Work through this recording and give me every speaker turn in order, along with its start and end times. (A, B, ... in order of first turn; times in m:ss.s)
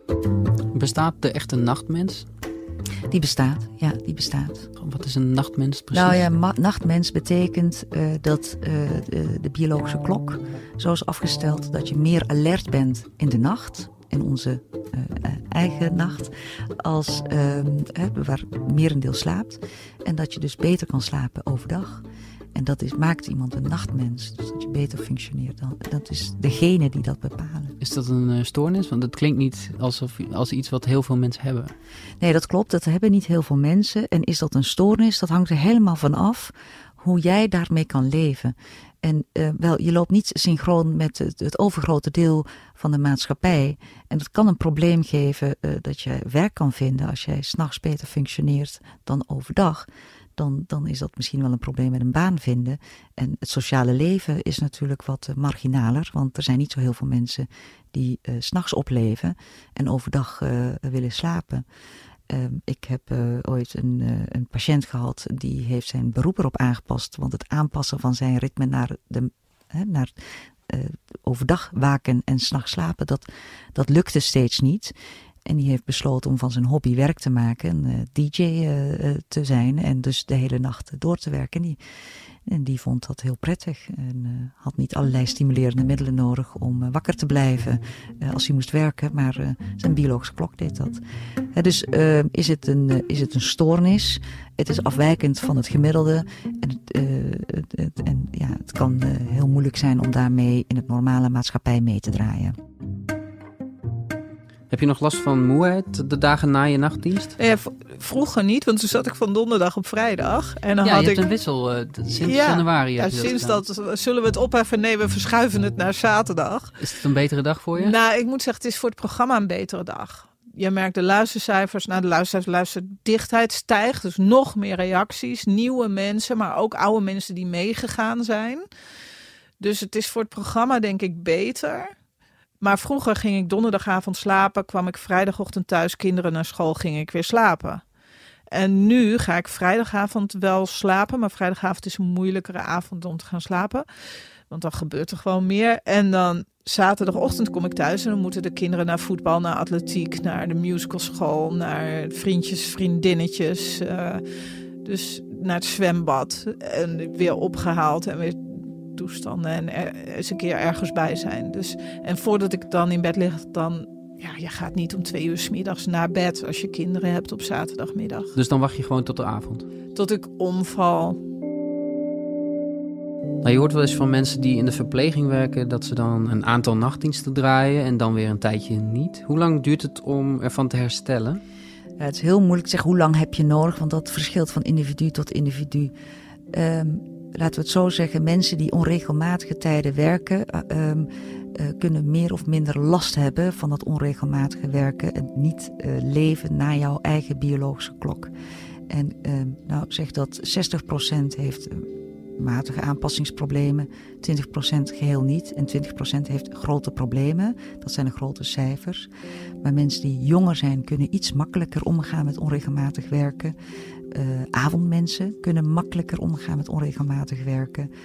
0:00.7-0:02.3 A
0:03.1-0:04.7 B
0:04.8-0:06.3 A
0:05.9-0:27.8 B
0:27.8-0:31.7 A
0:32.2-1:01.6 B
1:02.3-1:14.9 B
1:15.4-1:21.8 B
1:22.5-1:31.0 B
1:31.5-1:42.6 B
1:44.7-1:47.4 A
1:47.4-1:51.2 C
1:50.8-1:53.6 A
1:52.2-1:56.8 C
1:56.8-1:58.0 A
1:57.8-2:08.7 C
2:09.6-2:11.9 C
2:12.6-2:17.8 C
2:18.5-2:23.9 C
2:24.5-2:34.2 C
2:34.8-2:48.3 C
2:48.4-2:49.7 A
2:50.0-2:51.2 C
2:53.4-3:01.4 A
3:02.0-3:05.9 B
3:06.5-3:18.3 B
3:18.9-3:29.1 B
3:29.6-3:33.6 B
3:34.1-3:37.9 B